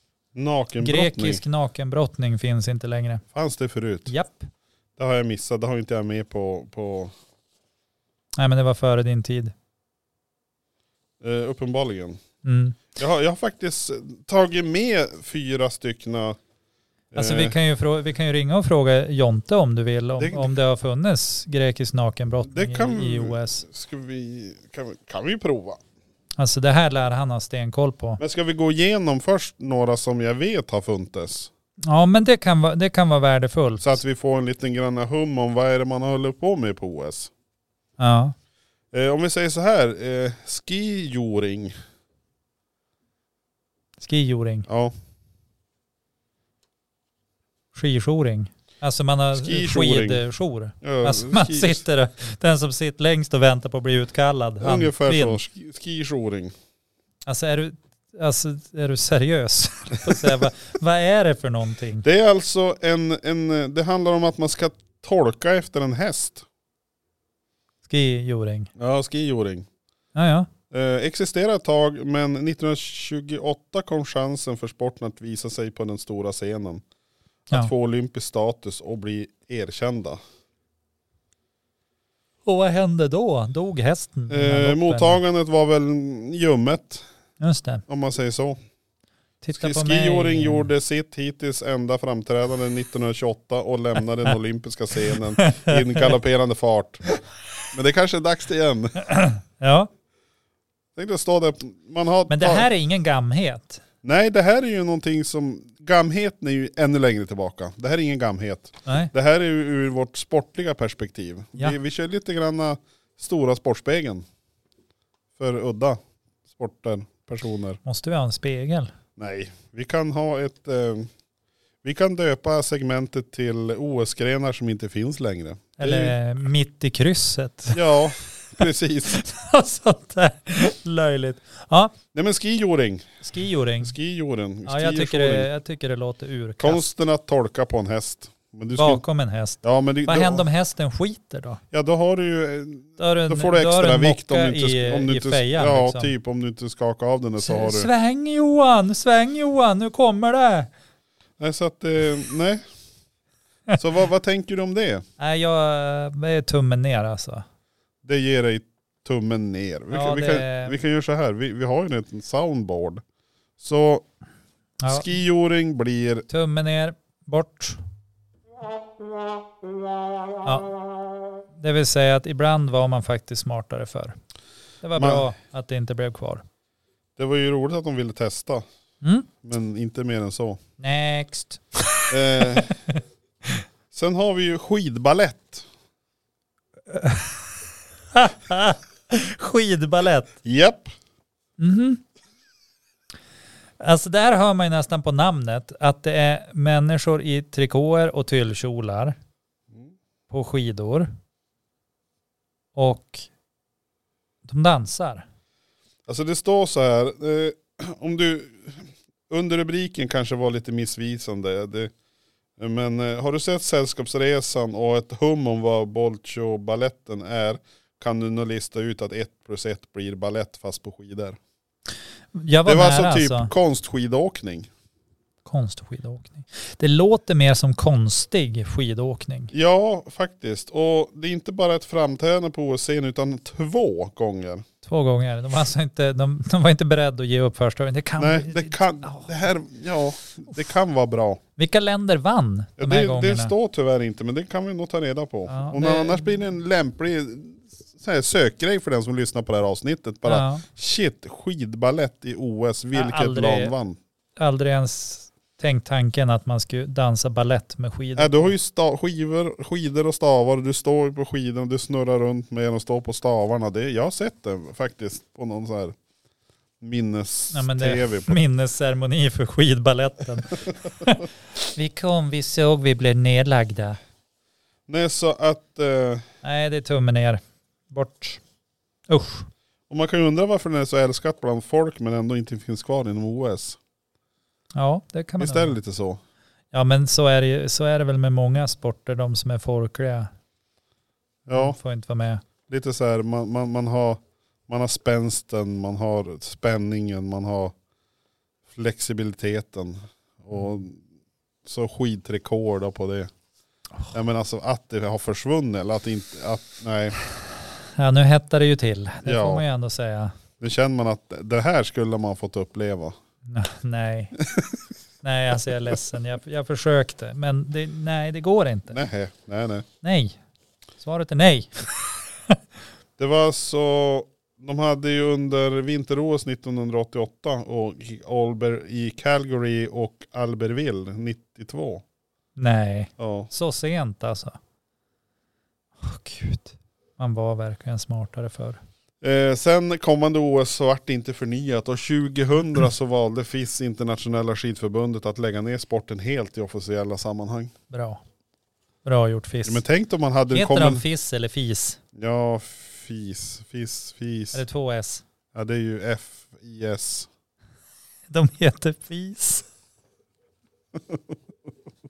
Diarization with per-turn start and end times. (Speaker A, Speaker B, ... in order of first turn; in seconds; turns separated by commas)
Speaker A: 0.3-1.4, Speaker B: 0.8-3.2, Speaker A: 3.3-4.1, Speaker B: 4.1-4.5, Speaker A: 5.0-7.1, Speaker B: 8.4-9.5, Speaker A: 11.2-12.2, Speaker B: 12.4-12.9, Speaker A: 12.9-16.4, Speaker A: 17.1-17.6, Speaker B: 17.1-23.6, Speaker A: 20.2-20.5, Speaker A: 22.5-25.8, Speaker B: 26.4-28.2, Speaker A: 28.2-31.5, Speaker B: 31.9-34.0, Speaker A: 33.8-37.3, Speaker B: 38.0-38.3, Speaker A: 38.9-41.7, Speaker B: 44.0-44.7, Speaker A: 44.7-44.9, Speaker B: 47.7-55.4, Speaker A: 49.3-50.2, Speaker A: 50.8-51.8, Speaker A: 54.6-56.5, Speaker B: 57.2-62.0, Speaker A: 62.0-66.5, Speaker B: 67.8-68.7, Speaker A: 68.8-69.7, Speaker B: 70.1-70.5, Speaker A: 70.7-76.8, Speaker A: 77.5-80.2, Speaker B: 82.4-85.2, Speaker A: 84.3-87.0, Speaker B: 87.4-87.8, Speaker A: 87.9-88.6, Speaker B: 89.4-90.7, Speaker A: 89.5-97.0, Speaker B: 95.4-96.1, Speaker A: 97.7-99.0, Speaker B: 99.0-99.9, Speaker A: 100.9-102.7, Speaker B: 102.3-103.8, Speaker A: 104.0-114.2, Speaker B: 108.8-109.1, Speaker A: 115.4-116.0, Speaker A: 116.5-117.8, Speaker B: 117.8-118.9, Speaker A: 119.2-121.1, Speaker A: 121.8-126.2, Speaker B: 125.8-127.8, Speaker A: 127.7-129.2, Speaker B: 129.1-131.9, Speaker A: 132.1-133.1, Speaker B: 133.2-133.9, Speaker A: 133.8-135.5, Speaker B: 134.6-136.8, Speaker A: 136.6-139.0, Speaker B: 138.7-141.6, Speaker A: 139.6-140.4, Speaker A: 141.7-147.9, Speaker B: 143.0-146.1, Speaker B: 147.4-150.7, Speaker A: 151.4-152.6, Speaker A: 153.8-155.0, Speaker B: 155.2-157.4, Speaker A: 158.0-163.0, Speaker B: 159.9-160.8, Speaker A: 163.6-164.0, Speaker B: 164.8-165.1, Speaker A: 164.8-166.2, Speaker B: 166.3-167.8, Speaker B: 170.4-170.7, Speaker B: 171.6-174.2, Speaker B: 174.8-176.4, Speaker A: 174.9-175.2, Speaker A: 177.2-178.6, Speaker B: 179.0-179.3, Speaker A: 179.4-180.6, Speaker B: 180.8-183.0, Speaker A: 182.1-182.8, Speaker A: 183.9-185.7, Speaker B: 186.9-187.4, Speaker B: 188.1-190.4, Speaker A: 190.4-190.9, Speaker B: 191.6-192.0, Speaker B: 193.8-199.2, Speaker B: 200.3-201.1, Speaker B: 202.8-203.3, Speaker B: 204.4-205.2, Speaker A: 206.1-211.9, Speaker A: 212.6-221.4, Speaker B: 222.3-223.5, Speaker A: 222.7-224.7, Speaker B: 225.4-229.5, Speaker A: 229.5-234.6, Speaker B: 234.8-239.3, Speaker A: 238.2-241.4, Speaker B: 241.6-243.5, Speaker A: 242.8-254.0, Speaker B: 245.5-246.3, Speaker B: 250.2-250.6, Speaker B: 252.9-253.7, Speaker B: 254.4-258.5, Speaker A: 258.1-265.9, Speaker A: 266.8-268.4, Speaker B: 267.5-274.0, Speaker A: 274.9-276.2, Speaker B: 276.4-278.4, Speaker B: 279.1-279.5, Speaker A: 279.9-283.8, Speaker B: 284.7-285.7, Speaker A: 285.4-286.2, Speaker B: 286.7-290.3, Speaker A: 291.4-291.8, Speaker B: 291.5-292.4, Speaker A: 292.7-297.7, Speaker A: 298.7-301.0, Speaker A: 301.6-303.3, Speaker A: 304.1-307.1, Speaker B: 308.0-310.3, Speaker A: 309.2-309.6, Speaker A: 310.6-313.1, Speaker B: 313.5-314.4, Speaker B: 315.2-319.0, Speaker A: 318.9-319.8, Speaker B: 320.0-320.4, Speaker B: 321.0-322.6, Speaker A: 323.2-332.0, Speaker B: 332.6-334.6, Speaker A: 333.2-333.5, Speaker B: 336.0-338.8, Speaker A: 339.2-347.7, Speaker B: 347.9-348.2, Speaker B: 349.0-349.8, Speaker A: 349.6-351.0, Speaker B: 350.5-352.0, Speaker A: 352.1-354.6, Speaker B: 354.5-355.2, Speaker A: 355.5-357.3, Speaker B: 358.3-359.6